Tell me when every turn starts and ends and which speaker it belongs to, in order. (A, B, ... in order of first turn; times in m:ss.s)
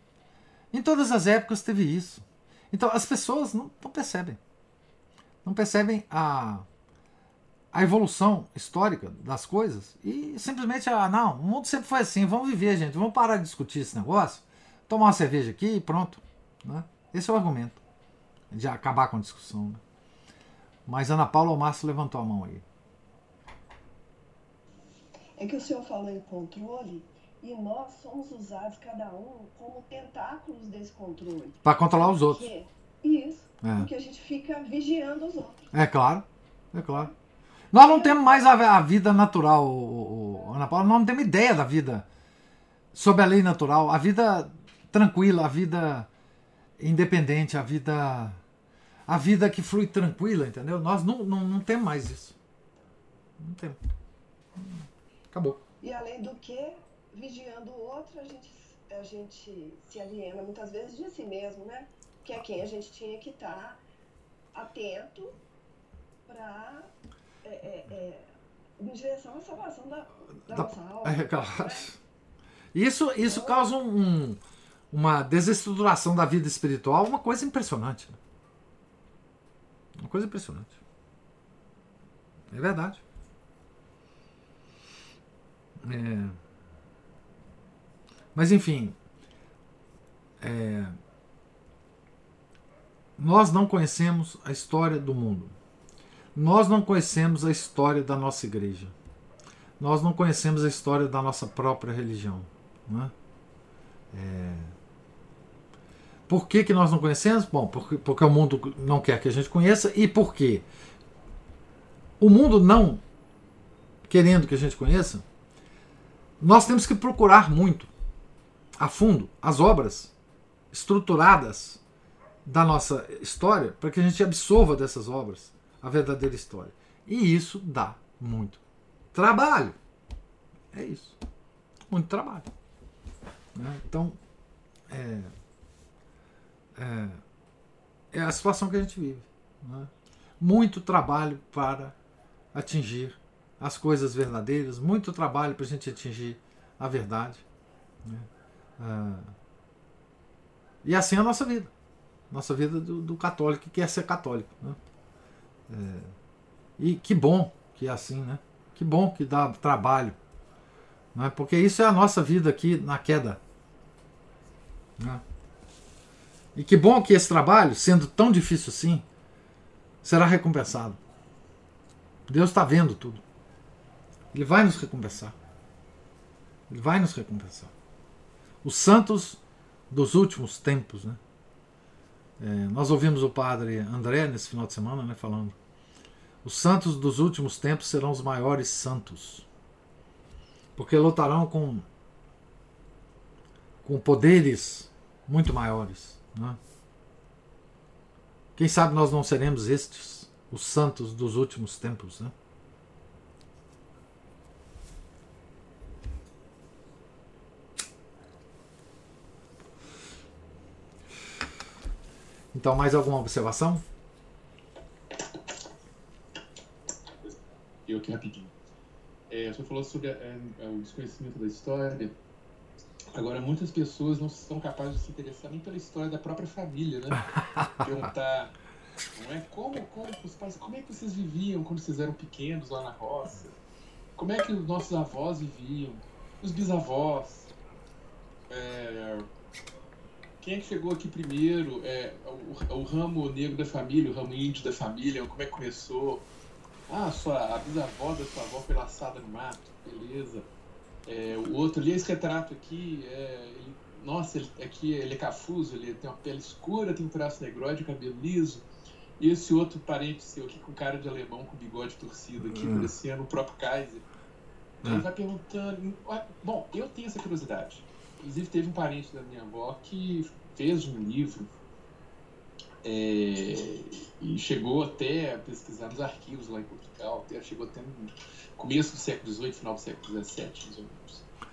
0:00.7-0:04.4 A
0:05.4-0:06.6 A
0:07.7-0:17.8 A
0:18.5-0:19.8 A
0:20.9-0:22.6 A
0:25.4-0:35.7 B
0:31.6-0:32.5 A
0:33.6-0:33.9 A
0:35.7-0:37.1 A
0:37.7-0:42.0 A
0:37.8-0:38.3 B
0:42.9-0:46.1 A
0:46.8-0:48.4 A
0:49.1-0:52.4 A
0:53.4-0:53.8 A
0:54.6-0:55.6 A
0:55.8-1:03.8 B
1:04.5-1:05.4 B
1:06.2-1:06.9 B
1:07.4-1:08.2 B
1:08.8-1:11.9 B
1:10.5-1:12.0 A
1:12.7-1:14.4 A
1:13.3-1:13.6 B
1:14.9-1:18.2 A
1:20.0-1:20.8 A
1:22.5-1:23.0 A
1:25.8-1:26.4 A
1:28.3-1:29.0 A
1:30.4-1:31.0 A
1:33.2-1:35.5 A
1:36.3-1:38.9 A
1:39.8-1:43.1 A
1:44.1-1:44.7 A
1:46.3-1:50.6 A
1:52.2-1:53.0 A
1:54.1-1:55.2 A
1:56.4-1:57.9 A
1:58.8-2:00.1 A
2:00.7-2:01.8 A
2:02.4-2:08.6 A
2:09.1-2:09.8 A
2:10.7-2:11.2 A
2:11.9-2:12.5 A
2:13.5-2:14.2 A
2:14.9-2:15.3 A
2:16.8-2:17.2 A
2:18.1-2:21.9 A
2:22.5-2:27.4 A
2:28.8-2:29.3 A
2:30.8-2:31.7 A
2:32.3-2:34.8 A
2:35.7-2:36.1 A
2:36.8-2:40.2 A
2:41.1-2:43.4 A
2:46.5-2:49.0 A
2:50.0-2:51.0 A
2:52.3-2:53.2 A
2:54.3-2:55.3 A
2:56.7-2:57.7 A
2:58.6-2:59.4 A
2:59.9-3:01.2 A
3:02.4-3:05.5 A
3:06.4-3:09.4 A
3:10.8-3:11.8 A
3:13.8-3:16.6 A
3:18.6-3:22.3 A
3:32.5-3:33.8 A
3:37.2-3:38.5 C
3:39.3-3:42.2 C
3:43.1-3:48.6 C
3:49.1-3:53.6 C
3:54.2-3:57.5 C
3:58.5-3:59.3 C
4:00.4-4:06.2 C
4:06.9-4:10.5 C
4:11.0-4:18.6 C
4:19.2-4:24.1 C
4:22.5-4:22.9 A
4:24.8-4:31.5 C
4:32.8-4:41.3 C